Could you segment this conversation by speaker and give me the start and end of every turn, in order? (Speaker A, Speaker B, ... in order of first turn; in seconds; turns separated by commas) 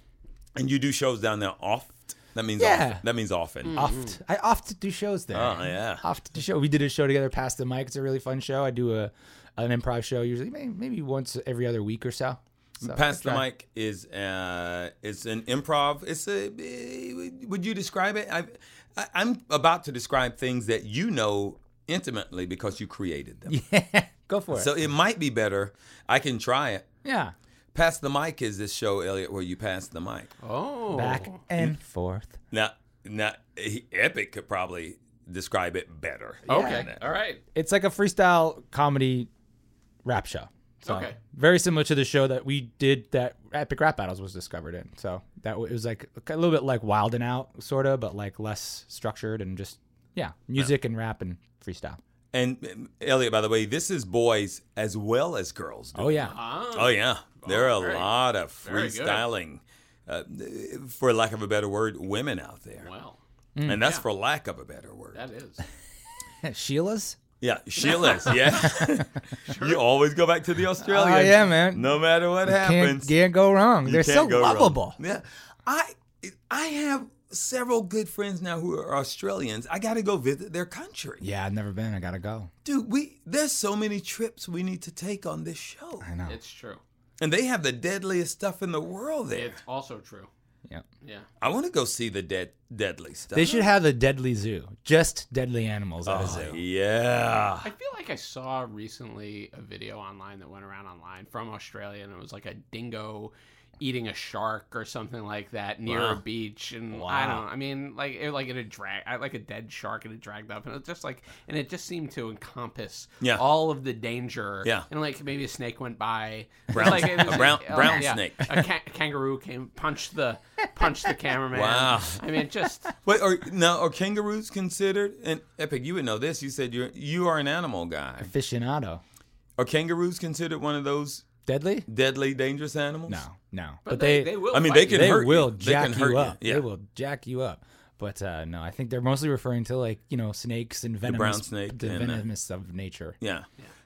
Speaker A: 0.6-3.8, Speaker B: 2.6-3.0, Speaker C: 3.6-4.1, Speaker B: 3.7-13.4, Speaker A: 5.3-6.0, Speaker A: 12.8-23.6, Speaker B: 23.5-24.7, Speaker A: 24.5-26.9, Speaker B: 27.0-27.3, Speaker A: 27.7-30.3, Speaker C: 30.4-31.4, Speaker B: 30.9-32.4, Speaker A: 32.5-37.0, Speaker C: 36.5-37.4, Speaker B: 36.5-36.9, Speaker B: 37.5-39.3, Speaker B: 40.0-52.0, Speaker C: 40.8-41.2, Speaker A: 52.3-62.9, Speaker B: 56.0-56.4, Speaker C: 56.2-58.1, Speaker C: 58.6-59.2, Speaker C: 62.8-63.2, Speaker B: 63.5-63.8, Speaker A: 63.6-65.2, Speaker C: 65.1-65.6, Speaker B: 66.4-67.2, Speaker A: 67.4-73.1, Speaker C: 67.8-68.7, Speaker C: 69.4-69.8, Speaker B: 70.8-75.0, Speaker A: 73.8-81.2, Speaker B: 81.2-82.5, Speaker A: 82.6-86.1, Speaker B: 86.0-86.3, Speaker C: 86.2-86.8, Speaker A: 87.2-89.5, Speaker C: 89.3-90.3, Speaker A: 91.4-93.7, Speaker B: 93.3-96.6, Speaker A: 96.0-97.7, Speaker C: 97.6-122.9, Speaker A: 105.8-106.2, Speaker B: 107.1-107.3, Speaker A: 116.7-118.5, Speaker A: 121.5-122.2, Speaker A: 123.0-128.3, Speaker B: 128.2-129.0, Speaker A: 129.6-131.3, Speaker B: 131.4-131.8, Speaker A: 131.8-133.2, Speaker B: 133.1-143.2, Speaker C: 133.8-135.2, Speaker A: 134.5-136.7, Speaker A: 141.0-142.2, Speaker A: 143.2-143.5